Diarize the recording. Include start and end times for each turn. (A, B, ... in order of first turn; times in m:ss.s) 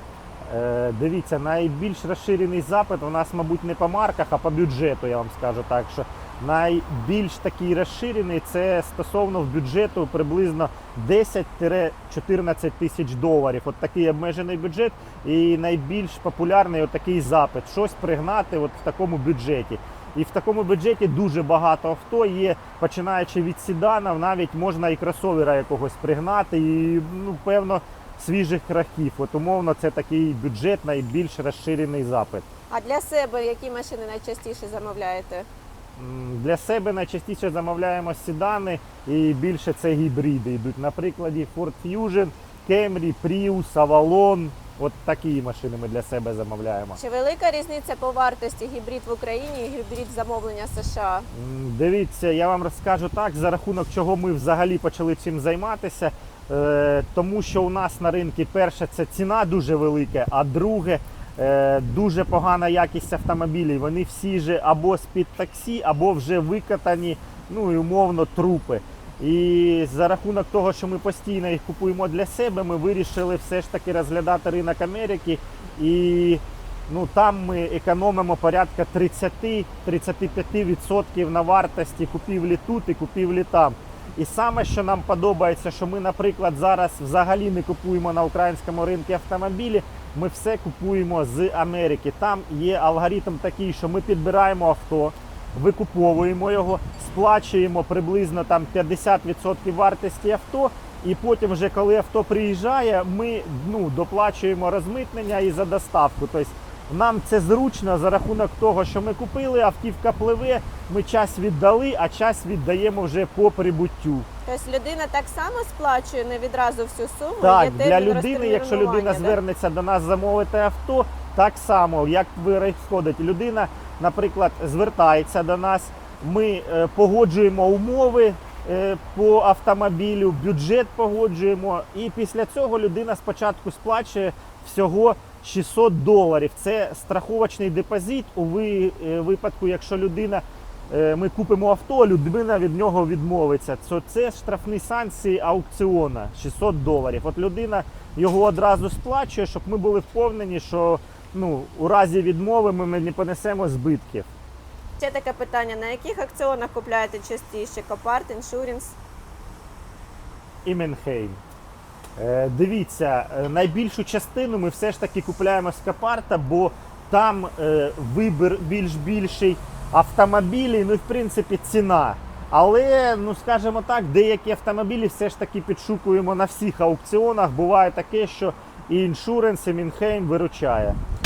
0:00.5-0:32.4 A
0:32.7-0:35.5 B
0:36.0-0:47.0 A
0:47.0-0:51.3 B
0:51.3-1:54.3 A
1:54.4-1:59.4 B
1:57.4-2:34.3 A
2:35.0-2:39.0 B
2:40.6-2:41.4 A
2:42.2-3:01.0 A